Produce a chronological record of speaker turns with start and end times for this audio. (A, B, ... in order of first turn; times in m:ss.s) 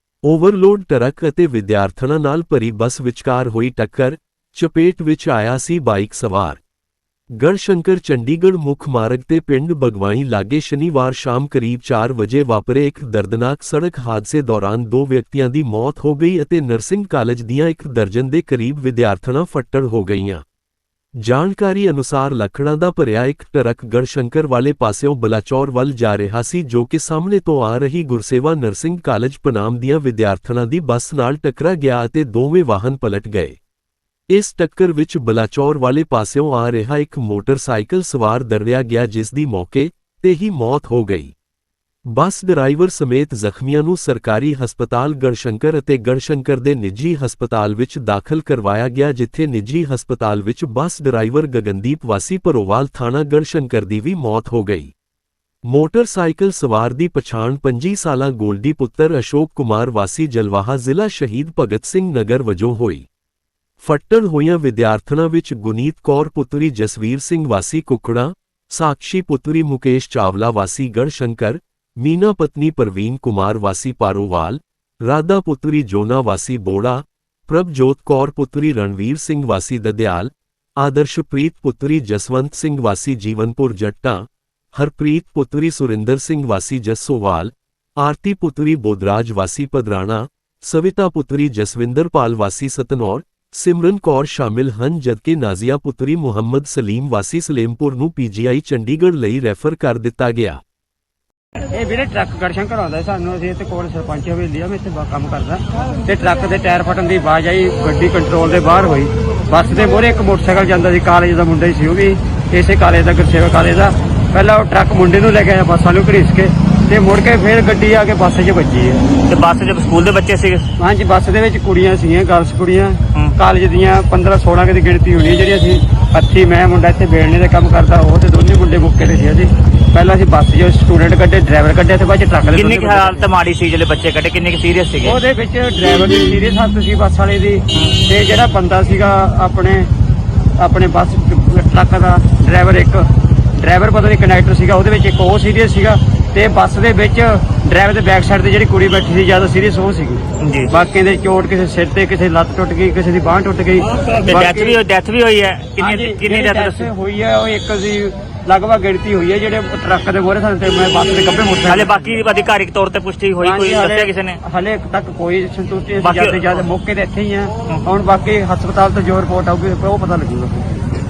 0:00.2-0:06.6 A
0:07.4-0:20.4 A
0:21.2-0:33.6 A
0:34.3-0:41.3 A
0:42.1-0:54.9 A
0:55.7-1:03.0 A
1:03.8-1:40.6 A
1:41.7-1:59.0 B
1:59.3-2:00.7 C
2:00.8-2:13.3 B
2:12.5-2:15.2 C
2:15.0-2:19.9 B
2:20.6-2:23.0 B
2:23.6-2:34.8 B
2:30.4-2:30.7 C
2:34.2-2:36.9 C
2:35.8-2:42.2 B
2:41.7-2:44.4 C
2:43.4-2:50.8 B
2:46.0-2:46.6 C